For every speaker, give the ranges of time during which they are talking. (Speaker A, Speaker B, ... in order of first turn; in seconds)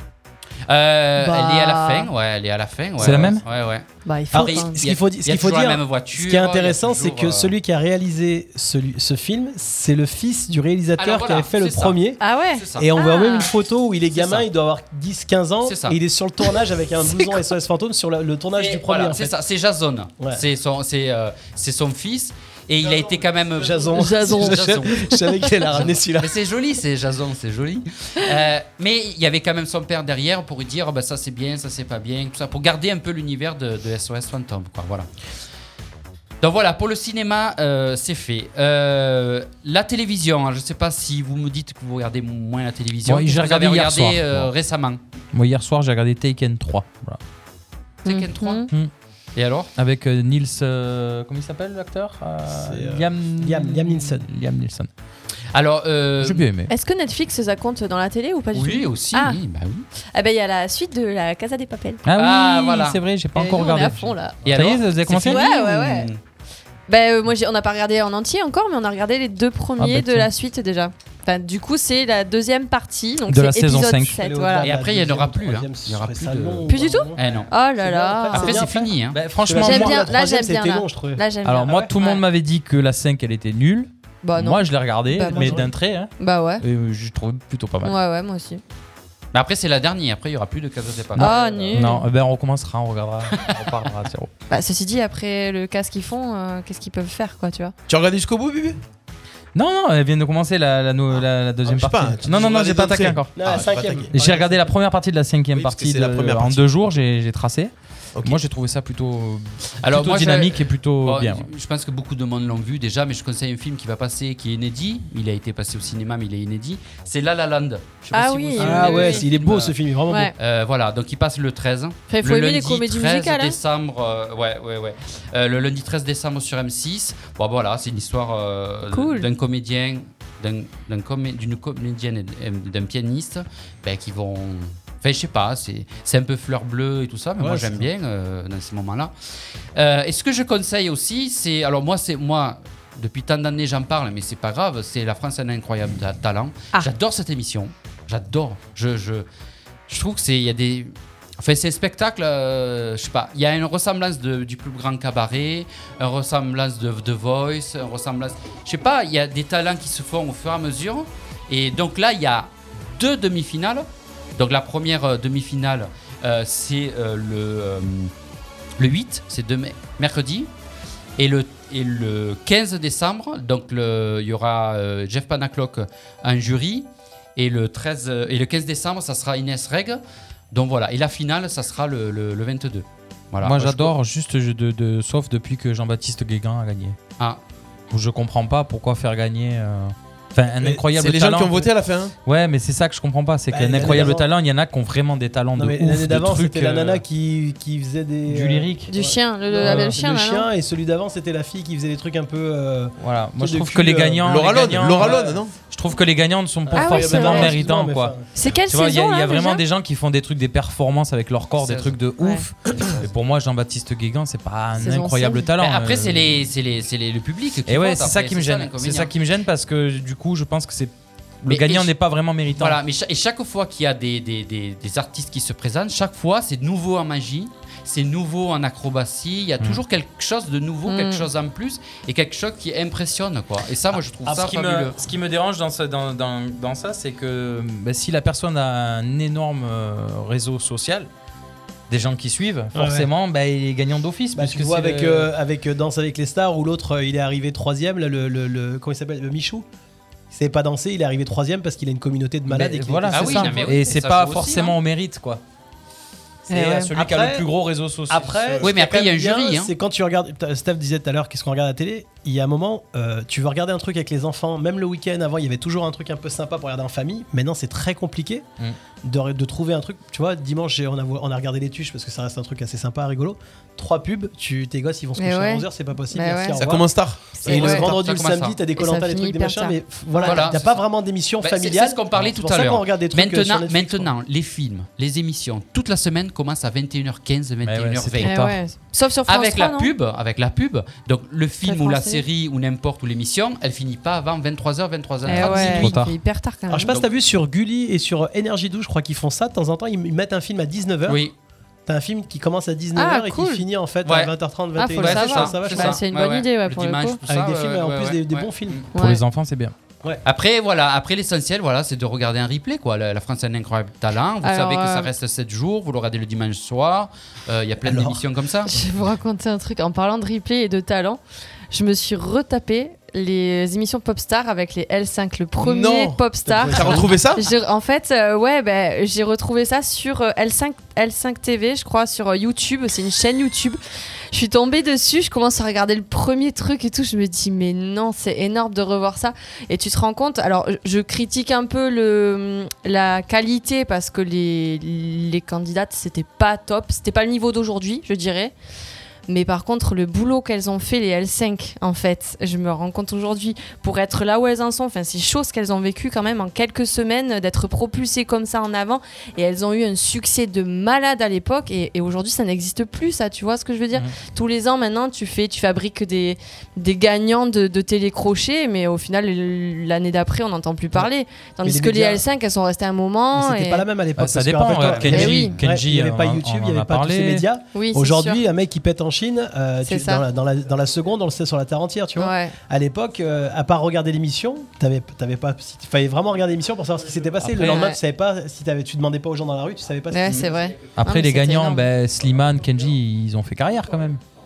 Speaker A: 0.7-7.5, 11.0-12.0, 12.6-12.9, 14.1-14.5, 15.6-16.0, 18.6-25.1, 25.7-35.1, 36.4-45.0, 48.0-48.7, 49.4-49.7, 55.5-56.5, 58.5-59.9, 62.2-63.0, 64.5-66.2, 74.6-77.5, 78.3-79.2, 89.3-91.3, 109.8-119.8, 120.4-139.1, 139.7-149.3, 149.9-168.1, 168.8-170.5, 171.2-180.0, 180.5-183.9, 211.6-212.0, 215.6-219.1, 221.5-221.9, 222.6-234.9, 253.1-254.8, 258.6-259.7, 277.4-278.6, 280.2-280.8, 281.4-288.3, 289.3-295.9, 301.1-301.3, 304.0-304.3, 304.9-308.9, 310.2-318.7, 374.9-375.1
Speaker B: 1.2-2.1, 4.0-4.8, 12.2-13.5, 17.0-17.4, 23.9-25.4, 48.0-48.7, 56.7-59.4, 60.1-62.0, 63.4-64.4, 65.2-66.1, 66.9-74.7, 76.7-78.6, 79.5-82.2, 84.2-85.7, 86.2-86.6, 87.8-88.6, 91.2-92.0, 94.5-97.7, 118.1-119.2, 122.1-123.6, 128.9-129.3, 198.9-200.5, 206.7-207.6, 208.3-209.6, 212.2-212.4, 214.8-215.5, 230.9-231.3, 256.5-256.9, 275.2-276.6, 277.4-277.9, 278.8-280.5, 288.2-289.9, 291.6-292.2, 295.3-297.0, 302.9-303.6, 304.8-307.2, 308.9-309.2, 314.4-315.1, 318.7-333.8, 334.3-348.5, 349.3-373.9, 375.1-375.6, 377.7-378.4, 379.8-380.2, 382.2-382.5, 387.7-388.0, 390.1-391.9
Speaker C: 3.0-3.4, 43.0-44.5, 45.3-47.2, 49.8-54.9, 56.2-56.7, 62.0-65.4, 69.8-70.3, 73.3-74.2, 79.1-80.0, 81.4-87.9, 91.2-94.3, 99.5-103.6, 104.1-111.5, 183.4-187.0, 187.9-191.7, 192.2-197.0, 198.3-198.9, 199.6-199.9, 203.0-208.1, 208.7-216.4, 217.7-222.8, 234.3-241.1, 241.9-245.3, 252.5-255.4, 256.5-258.7, 287.6-288.6, 295.3-296.2, 308.9-309.7, 374.2-377.4, 387.4-387.9, 390.9-394.2
Speaker D: 4.3-12.2, 12.8-19.3, 22.8-26.4, 52.5-54.2, 74.2-81.9, 85.3-85.7, 91.4-91.7, 103.3-104.7, 118.6-120.3, 137.4-137.9, 193.5-194.3, 195.6-204.3, 204.9-205.4, 206.7-208.3, 242.7-243.1, 244.3-249.7, 250.3-253.6, 256.9-257.5, 258.1-268.4, 269.0-284.1, 296.7-301.2, 301.9-306.0, 307.3-308.9, 317.9-318.2, 326.4-327.2, 371.6-372.2, 373.3-390.6
Speaker E: 97.9-98.8, 101.6-104.1, 105.5-106.7, 108.1-108.4, 190.6-192.1, 204.2-205.5, 276.6-277.4, 325.6-327.4